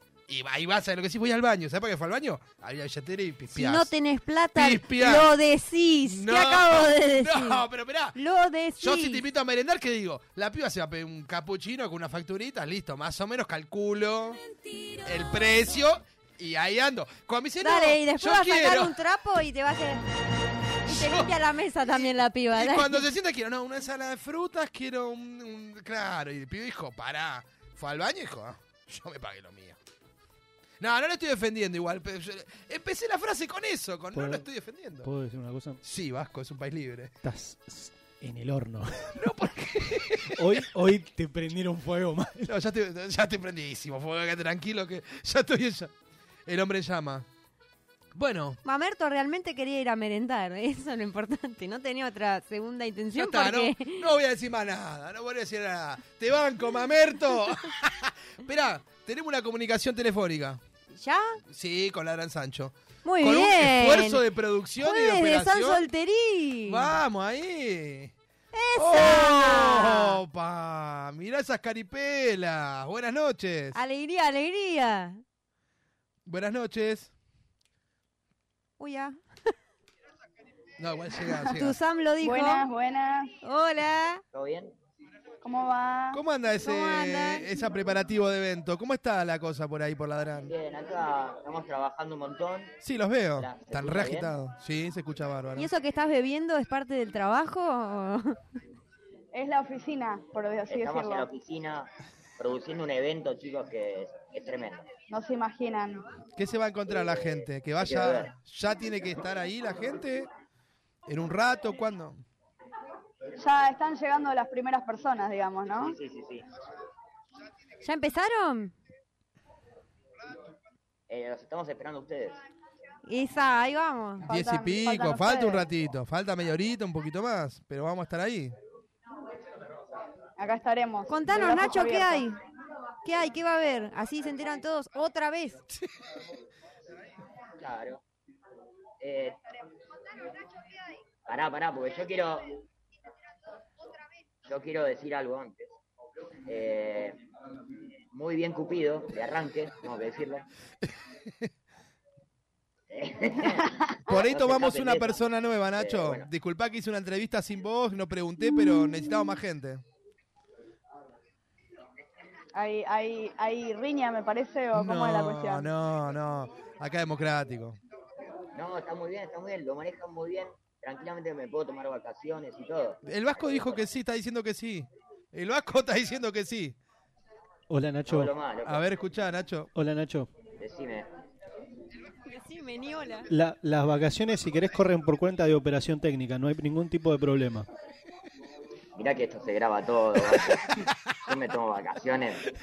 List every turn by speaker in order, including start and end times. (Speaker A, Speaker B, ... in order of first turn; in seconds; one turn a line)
Speaker A: 0.3-3.9
Speaker B: 3.5-7.6
Speaker A: 4.5-5.3
Speaker A: 6.0-8.2
Speaker B: 8.1-9.2
Speaker A: 8.8-14.4
Speaker A: 15.0-18.9
Speaker B: 17.6-20.0
Speaker B: 20.8-23.1
Speaker A: 20.8-29.8
Speaker A: 30.8-35.1
Speaker C: 34.1-34.4
Speaker C: 35.0-35.8
Speaker A: 35.8-37.1
Speaker C: 37.2-39.1
Speaker A: 39.1-40.6
Speaker C: 40.3-42.5
Speaker A: 42.4-45.9
Speaker A: 46.5-47.3
Speaker A: 48.1-48.6
Speaker B: 48.6-54.0
Speaker A: 53.1-60.6
Speaker B: 60.9-61.4
Speaker A: 61.5-65.8
Speaker B: 63.0-64.2
Speaker B: 64.8-66.9
Speaker A: 66.7-68.1
Speaker B: 68.5-70.2
Speaker A: 68.8-73.8
Speaker B: 73.7-75.2
Speaker A: 76.2-77.1
Speaker B: 78.8-79.2
Speaker A: 80.8-81.8
Speaker B: 81.5-82.6
Speaker D: 82.2-83.3
Speaker B: 83.4-84.2
Speaker E: 84.3-84.7
Speaker D: 85.4-86.2
Speaker A: 86.1-90.5
Speaker B: 86.6-87.5
Speaker E: 90.4-92.7
Speaker A: 92.8-95.7
Speaker E: 93.4-94.3
Speaker B: 95.5-98.4
Speaker D: 99.3-101.2
Speaker E: 100.7-104.9
Speaker D: 105.1-106.0
Speaker A: 106.4-110.3
Speaker E: 106.9-108.3
Speaker A: 111.0-112.2
Speaker D: 113.4-115.9
Speaker E: 115.8-116.5
Speaker B: 117.8-118.7
Speaker E: 121.1-122.4
Speaker B: 123.0-124.3
Speaker A: 124.2-128.6
Speaker D: 124.2-125.7
Speaker D: 130.4-132.3
Speaker B: 131.1-132.4
Speaker B: 133.0-135.6
Speaker E: 137.6-138.0
Speaker E: 139.0-139.4
Speaker E: 141.2-142.6
Speaker E: 144.4-145.8
Speaker E: 146.5-147.2
Speaker E: 148.1-150.4
Speaker E: 152.9-155.2
Speaker A: 154.1-159.8
Speaker E: 155.7-156.3
Speaker D: 162.5-165.7
Speaker A: 164.7-167.8
Speaker E: 168.5-173.8
Speaker A: 173.0-176.8
Speaker C: 177.7-178.3
Speaker E: 178.1-178.9
Speaker A: 178.6-179.7
Speaker C: 179.7-180.3
Speaker E: 180.6-181.1
Speaker B: 182.3-183.3
Speaker C: 183.3-187.7
Speaker E: 188.9-190.7
Speaker E: 191.2-192.4